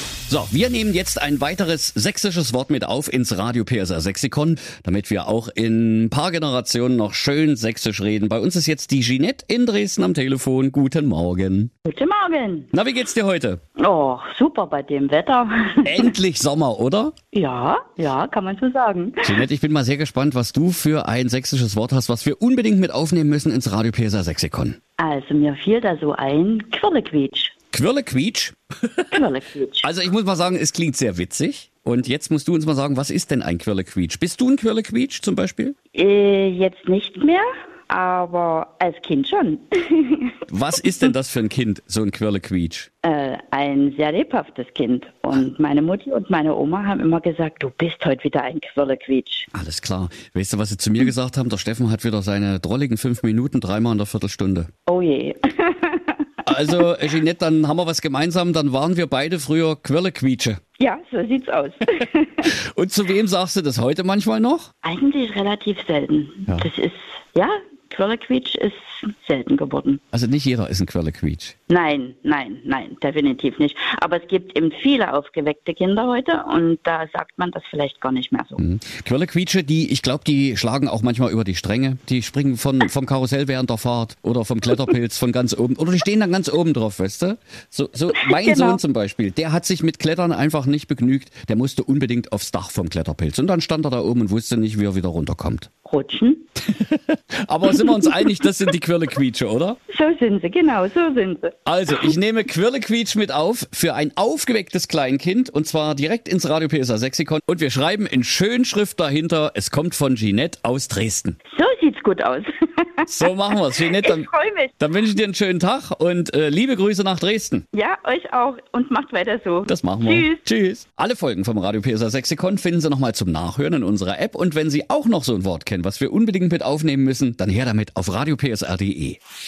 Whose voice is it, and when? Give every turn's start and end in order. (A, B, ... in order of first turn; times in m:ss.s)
0:00.3-0:11.7 A
0:11.8-0:12.7 B
0:12.7-0:13.6 A
0:13.8-0:16.1 B
0:15.8-0:17.1 A
0:17.3-0:19.3 B
0:19.2-0:24.8 A
0:25.0-0:27.5 B
0:27.7-0:29.3 A
0:29.1-0:29.9 B
0:29.8-0:35.8 A
0:35.9-0:40.4 B
0:40.5-0:42.9 A
0:43.0-0:49.5 B
0:49.5-0:54.7 A
0:54.9-0:56.8 B
0:56.4-1:00.6 A
1:00.8-1:02.5 B
1:02.4-1:04.7 A
1:04.8-1:10.0 B
1:10.1-1:11.5 A
1:11.7-1:18.6 B
1:18.6-1:35.7 A
1:28.1-1:28.8 B
1:35.8-1:36.5 B
1:36.7-1:39.8 A
1:37.8-1:38.1 B
1:39.9-1:42.1 B
1:41.7-1:51.4 A
1:51.5-1:54.7 B
1:53.1-1:57.6 A
1:57.7-2:00.4 B
1:59.7-2:09.2 A